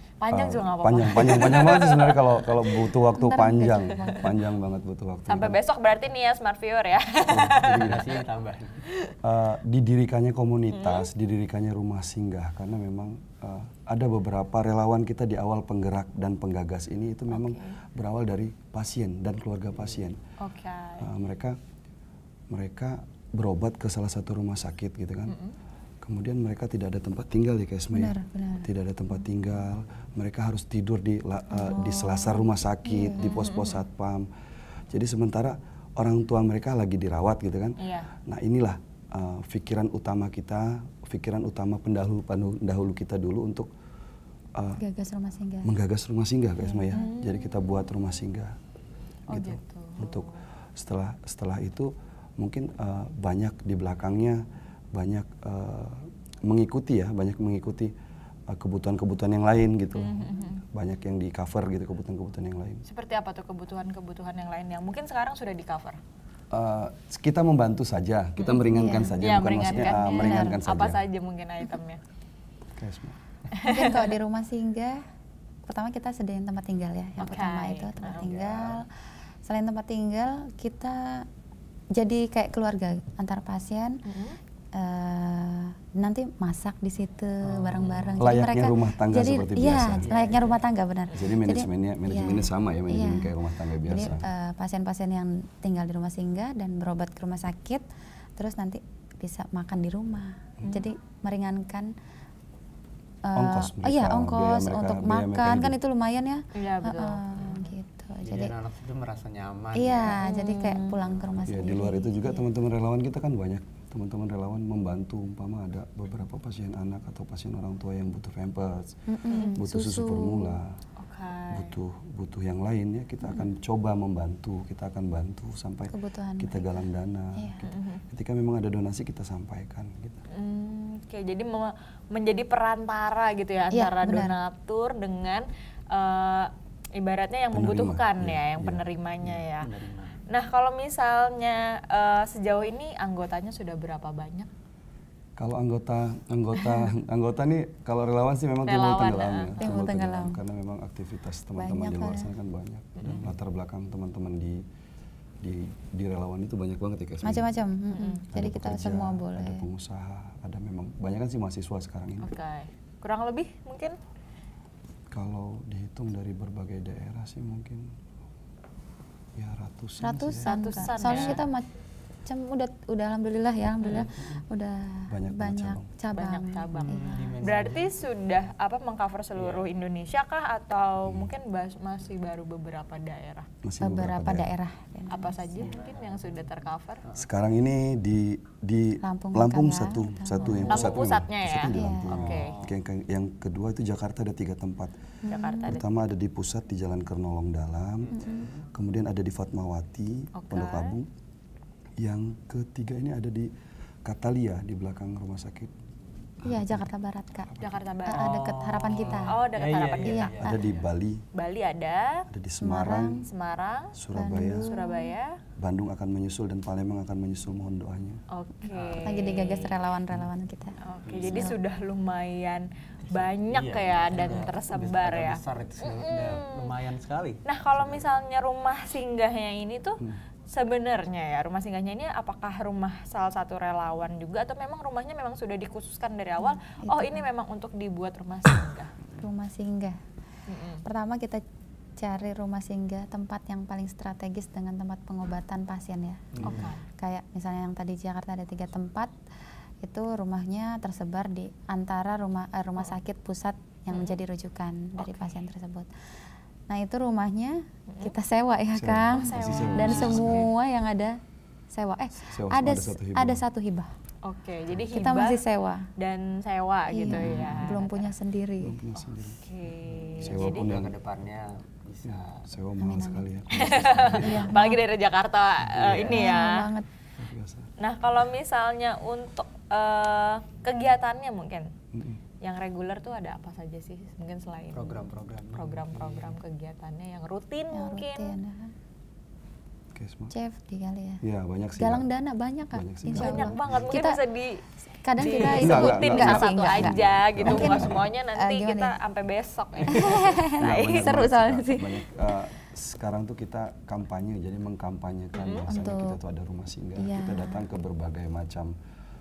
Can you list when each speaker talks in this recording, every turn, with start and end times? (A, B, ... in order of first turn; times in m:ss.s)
0:00.2-0:02.9 A
0:00.3-0:05.6 B
0:03.1-0:04.3 C
0:05.3-0:08.1 A
0:07.3-0:08.1 B
0:07.6-0:08.8 D
0:08.9-0:09.1 A
0:09.2-0:20.2 B
0:10.7-0:11.1 A
0:17.3-0:17.8 A
0:20.4-0:21.1 A
0:21.0-0:21.6 B
0:22.5-0:25.4 B
0:25.3-0:25.5 A
0:26.0-0:34.3 B
0:27.9-0:28.7 C
0:31.6-0:32.2 A
0:32.8-0:33.4 C
0:33.2-0:33.8 A
0:34.9-0:43.7 B
0:37.8-0:38.1 A
0:44.6-0:44.8 B
0:44.8-0:45.8 C
0:45.6-0:48.6 B
0:46.6-0:47.0 C
0:46.9-0:47.8 A
0:49.3-0:50.4 A
0:49.3-0:57.9 B
0:58.5-1:02.8 B
0:59.9-1:00.6 A
1:02.8-1:06.0 A
1:06.5-1:11.0 B
1:08.7-1:10.6 C
1:09.1-1:12.0 A
1:12.7-1:13.2 B
1:13.5-1:14.1 A
1:13.6-1:15.0 C
1:15.6-1:18.9 C
1:17.2-1:18.2 A
1:18.1-1:18.8 D
1:19.4-1:21.2 C
1:22.0-1:24.0 C
1:24.0-1:24.4 A
1:24.7-1:37.8 C
1:27.5-1:28.3 D
1:28.2-1:30.1 B
1:30.0-1:30.6 D
1:31.1-1:34.3 B
1:38.4-1:41.9 C
1:43.2-1:48.5 C
1:43.3-1:45.8 B
1:46.5-1:47.2 A
1:48.2-1:50.2 D
1:49.7-1:52.4 C
1:50.2-1:51.1 A
1:51.4-2:00.8 B
1:59.1-2:00.6 C
1:59.3-1:59.6 A
2:01.0-2:01.7 A
2:01.5-2:10.2 B
2:05.9-2:07.6 C
2:07.6-2:08.0 A
2:10.3-2:19.7 A
2:13.7-2:14.3 C
2:17.5-2:19.4 B
2:19.6-2:20.2 D
2:20.3-2:24.5 A
2:25.4-2:34.6 B
2:28.6-2:29.5 A
2:29.6-2:30.4 C
2:31.6-2:32.3 C
2:33.0-2:33.3 D
2:35.4-2:37.6 B
2:37.2-2:39.7 C
2:37.9-2:38.2 A
2:38.3-2:42.3 B
2:42.2-2:44.0 A
2:45.1-2:48.0 B
2:49.3-2:51.0 B
2:50.0-2:51.7 C
2:50.4-2:51.4 A
2:52.2-2:57.4 C
2:53.8-2:54.4 D
2:55.1-2:55.9 B
2:56.1-3:03.5 A
2:56.7-2:57.9 D
2:59.4-2:59.6 D
3:03.6-3:04.5 B
3:03.8-3:05.7 C
3:05.1-3:07.0 A
3:05.6-3:06.5 D
3:07.2-3:21.1 B
3:09.0-3:11.0 C
3:10.4-3:11.0 D
3:10.7-3:12.6 A
3:11.7-3:12.2 C
3:12.1-3:12.8 D
3:15.2-3:15.8 C
3:15.3-3:15.8 A
3:18.0-3:18.6 D
3:18.1-3:18.5 C
3:20.3-3:21.0 A
3:22.0-3:23.5 B
3:24.0-3:25.7 B
3:26.4-3:26.8 B
3:26.4-3:27.5 C
3:27.6-3:28.3 A
3:28.0-3:29.3 C
3:28.1-3:30.7 D
3:29.2-3:30.3 A
3:30.0-3:30.6 C
3:30.4-3:31.2 B
3:31.3-3:32.2 A
3:32.3-3:33.2 B
3:32.6-3:33.2 C
3:33.2-3:33.9 A
3:33.9-3:34.7 B
3:34.1-3:35.1 C
3:34.6-3:35.4 A
3:35.6-3:38.2 B
3:38.3-3:39.8 A
3:38.7-3:39.2 D
3:39.0-3:40.7 C
3:40.8-3:46.7 A
3:41.0-3:41.5 D
3:41.3-3:41.6 C
3:43.1-3:48.0 D
3:47.4-3:58.9 A
3:56.4-3:57.2 C
3:59.2-4:00.0 C
4:00.5-4:00.8 A
4:00.8-4:01.4 C
4:02.0-4:09.1 C
4:06.4-4:06.6 D
4:06.4-4:06.8 A
4:09.8-4:15.9 C
4:13.9-4:14.2 A
4:15.0-4:15.3 A
4:16.7-4:21.2 C
4:17.9-4:18.1 A
4:18.7-4:20.5 B
4:19.1-4:20.4 A
4:19.8-4:20.1 D
4:21.7-4:23.9 C
4:22.2-4:23.4 B
4:24.2-4:25.4 A
4:24.9-4:25.9 C
4:26.0-4:28.1 A
4:26.9-4:28.8 C
4:27.2-4:27.6 D
4:28.6-4:29.4 B
4:29.4-4:30.7 A
4:29.9-4:32.5 D
4:30.2-4:30.9 B
4:32.0-4:34.5 B
4:32.8-4:33.3 C
4:33.5-4:36.7 A
4:34.2-4:34.8 C
4:35.6-4:36.4 B
4:36.0-4:36.9 C
4:37.2-4:37.7 B
4:37.8-4:41.7 A
4:41.9-4:42.2 B
4:42.4-4:48.4 A
4:44.7-4:46.4 D
4:47.7-4:48.7 C
4:49.9-4:50.3 B
4:50.3-4:51.2 C
4:51.2-4:52.0 B
4:51.8-4:54.2 C
4:52.7-4:53.9 B
4:53.1-4:54.6 A
4:55.0-4:58.9 C
4:55.2-5:01.3 A
4:55.4-4:58.0 B
4:59.8-5:00.1 D
4:59.9-5:02.3 C
5:00.4-5:08.8 B
5:05.4-5:05.7 A
5:05.7-5:06.2 C
5:07.0-5:07.7 C